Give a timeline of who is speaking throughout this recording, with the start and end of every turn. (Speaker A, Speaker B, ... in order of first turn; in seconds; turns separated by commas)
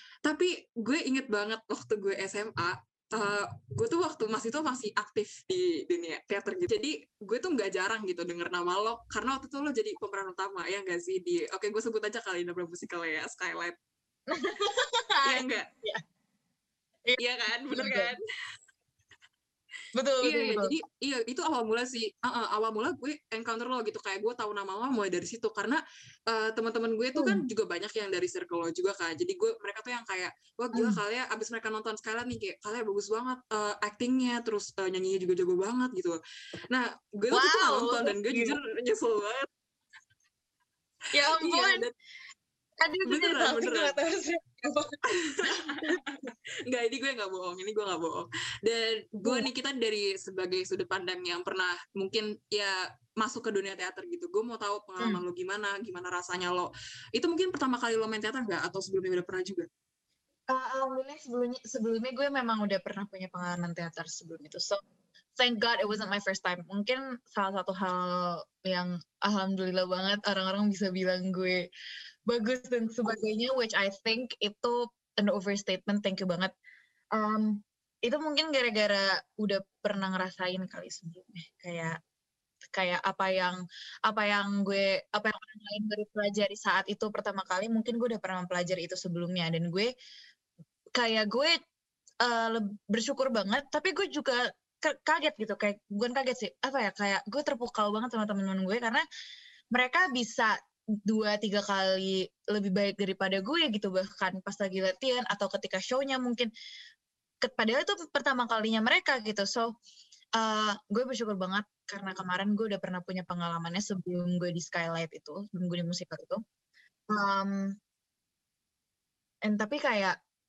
Speaker A: 0.2-13.8, Speaker B: 14.3-16.0, Speaker A: 15.2-15.7, Speaker A: 17.2-18.2, Speaker B: 17.7-18.1, Speaker B: 19.9-20.7, Speaker A: 20.2-36.2, Speaker B: 27.1-27.4, Speaker B: 30.7-31.0, Speaker A: 36.7-39.5, Speaker B: 37.3-38.6, Speaker B: 41.1-41.8, Speaker A: 41.3-41.9, Speaker B: 42.8-46.0, Speaker A: 43.0-43.9, Speaker A: 45.1-59.7, Speaker B: 49.2-49.5, Speaker B: 60.5-64.8, Speaker B: 65.4-71.6, Speaker B: 72.3-76.5, Speaker B: 77.1-82.0, Speaker B: 82.7-89.9, Speaker B: 91.0-91.6, Speaker B: 92.2-99.0, Speaker B: 99.7-100.5, Speaker B: 101.0-106.5, Speaker B: 107.4-109.7, Speaker B: 110.4-116.4, Speaker B: 117.1-117.8, Speaker B: 119.4-120.2